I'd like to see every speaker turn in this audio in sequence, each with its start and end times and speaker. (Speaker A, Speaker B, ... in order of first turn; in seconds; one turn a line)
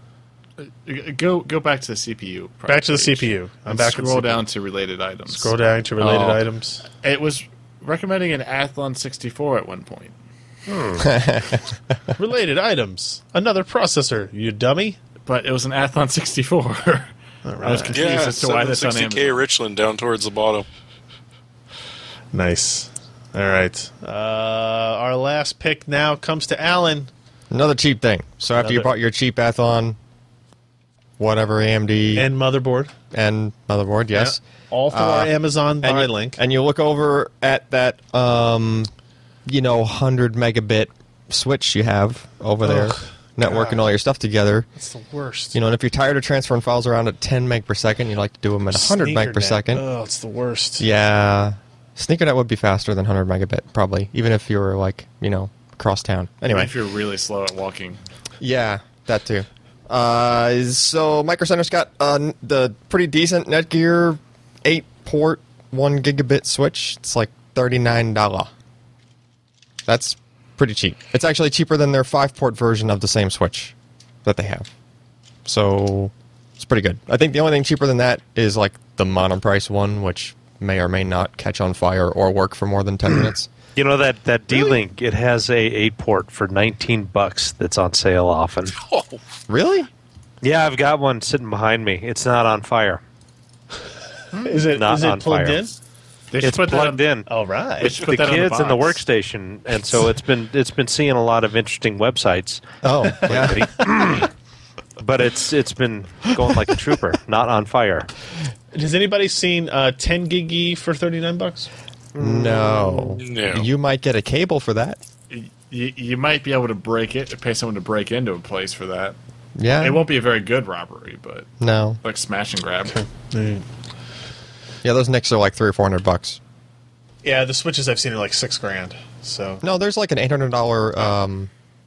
Speaker A: 0.6-5.5
Speaker B: 2.7-4.5
Speaker B: 5.3-6.8
Speaker A: 7.0-10.2
Speaker C: 10.7-11.0
Speaker D: 11.0-11.6
Speaker B: 12.2-15.0
Speaker A: 15.2-19.4
Speaker B: 17.4-18.0
Speaker E: 17.9-20.7
Speaker B: 22.3-27.1
Speaker D: 27.5-30.0
Speaker B: 28.6-28.9
Speaker D: 31.2-32.3
Speaker B: 32.1-32.9
Speaker D: 33.1-35.3
Speaker B: 34.1-36.4
Speaker D: 35.8-38.9
Speaker D: 39.5-44.7
Speaker B: 42.6-43.9
Speaker B: 44.8-45.6
Speaker D: 45.5-49.8
Speaker B: 48.7-50.9
Speaker D: 50.8-56.7
Speaker A: 56.5-58.0
Speaker D: 58.4-68.5
Speaker D: 69.9-73.7
Speaker D: 74.2-74.7
Speaker D: 75.5-83.5
Speaker C: 83.8-88.8
Speaker E: 88.8-89.2
Speaker D: 89.5-89.9
Speaker C: 90.4-93.0
Speaker B: 94.4-95.8
Speaker C: 94.7-95.6
Speaker A: 96.3-97.1
Speaker C: 96.4-97.3
Speaker B: 97.3-98.0
Speaker A: 97.8-99.0
Speaker C: 97.9-104.3
Speaker D: 102.8-103.7
Speaker C: 105.0-108.1
Speaker B: 108.7-111.7
Speaker C: 112.2-113.2
Speaker D: 112.2-115.0
Speaker E: 113.2-113.7
Speaker A: 115.3-119.2
Speaker D: 119.6-120.1
Speaker A: 119.8-121.5
Speaker D: 121.6-122.0
Speaker A: 122.0-123.0
Speaker B: 122.9-123.7
Speaker D: 124.8-126.4
Speaker B: 127.2-129.6
Speaker D: 129.6-131.5